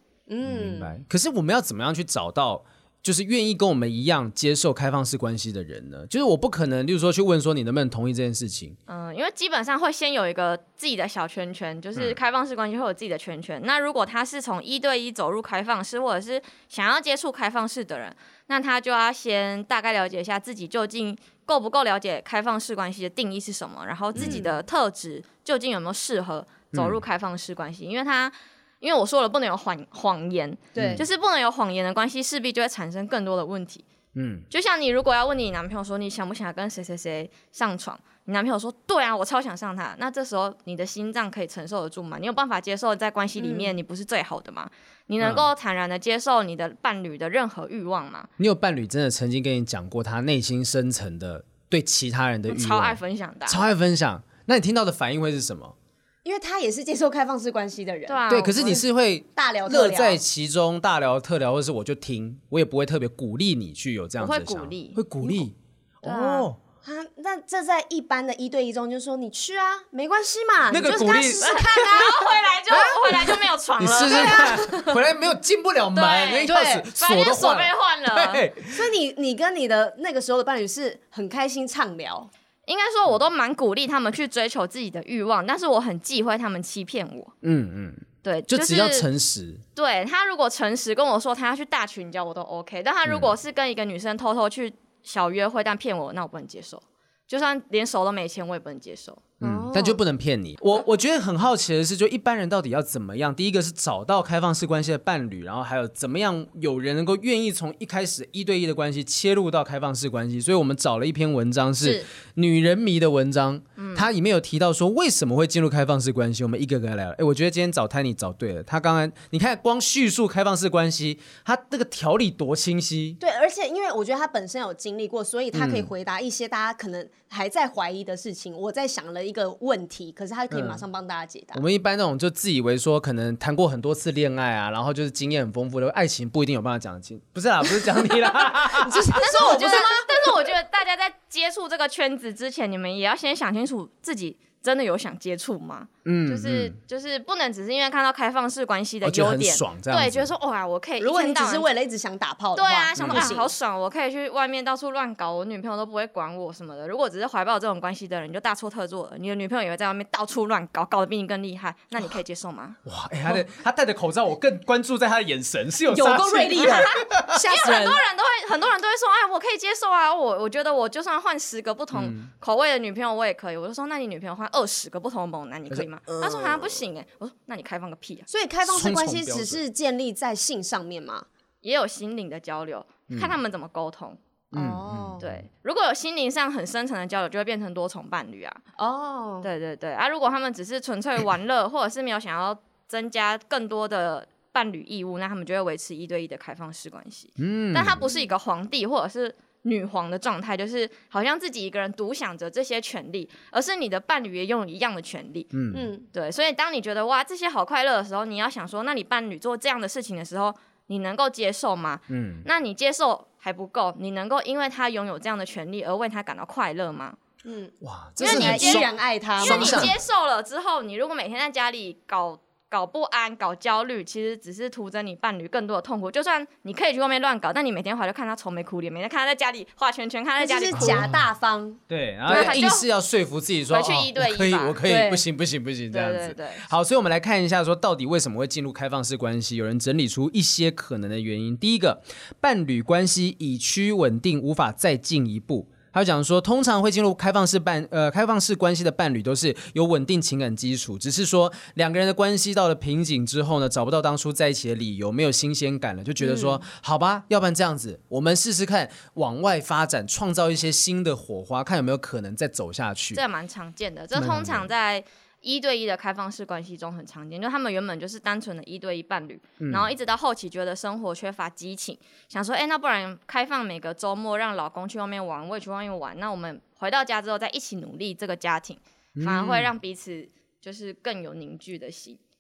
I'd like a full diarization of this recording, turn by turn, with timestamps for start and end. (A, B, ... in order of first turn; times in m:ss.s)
0:00.3-0:01.0 A
0:00.4-0:08.8 B
0:08.9-0:33.8 C
0:24.2-0:24.4 B
0:24.2-0:24.6 A
0:26.7-0:27.0 B
0:30.7-0:31.0 A
0:30.8-0:31.0 B
0:34.2-0:34.5 B
0:34.5-0:48.3 C
0:43.4-0:43.7 A
0:45.2-0:45.5 B
0:48.4-0:55.8 B
0:52.5-0:53.6 C
0:56.2-0:58.8 A
0:58.1-0:58.8 C
0:58.3-1:06.6 B
0:59.4-1:00.2 A
1:04.2-1:05.0 C
1:06.0-1:06.5 C
1:06.8-1:13.4 A
1:10.7-1:11.9 B
1:11.4-1:14.6 C
1:13.8-1:18.9 B
1:14.0-1:15.0 A
1:16.0-1:18.4 C
1:16.4-1:16.9 A
1:18.7-1:22.3 A
1:22.7-1:27.3 C
1:27.4-1:29.6 B
1:28.2-1:29.1 C
1:29.8-1:39.2 C
1:33.1-1:33.3 B
1:39.4-1:40.0 A
1:39.4-2:03.2 B
1:53.8-1:54.1 C
2:03.2-2:11.6 A
2:05.5-2:05.9 B
2:10.5-2:10.8 B
2:11.5-2:19.6 B
2:18.5-2:20.4 A
2:19.2-2:31.7 C
2:26.0-2:26.8 B
2:29.0-2:30.3 B
2:31.0-2:33.5 A
2:32.6-2:42.8 C
2:33.0-2:33.4 B
2:42.8-2:47.4 B
2:45.9-2:48.0 A
2:46.6-2:58.3 C
2:51.9-2:52.3 B
2:56.1-2:56.8 A
2:58.3-3:01.3 A
2:58.7-2:59.6 B
3:01.6-3:04.2 C
3:03.1-3:03.4 B
3:04.5-3:05.2 A
3:04.5-3:05.4 B
3:05.2-3:08.6 C
3:08.8-3:09.5 A
3:09.4-3:25.5 C
3:17.4-3:18.1 B
3:25.5-3:25.9 B
3:25.7-3:26.1 A
3:26.1-3:37.2 C
3:32.1-3:32.5 B
3:37.4-3:39.9 A
3:37.8-3:40.0 B
3:38.2-3:51.0 C
3:50.4-3:52.6 A
3:50.8-3:51.2 B
3:51.9-4:23.2 B
3:52.3-3:52.9 C
3:53.7-3:54.8 C
3:54.8-3:55.2 A
3:55.9-3:56.7 C
4:16.2-4:16.6 A
4:23.1-4:42.2 C
4:24.1-4:24.7 B
4:29.6-4:29.9 B
4:39.2-4:39.7 B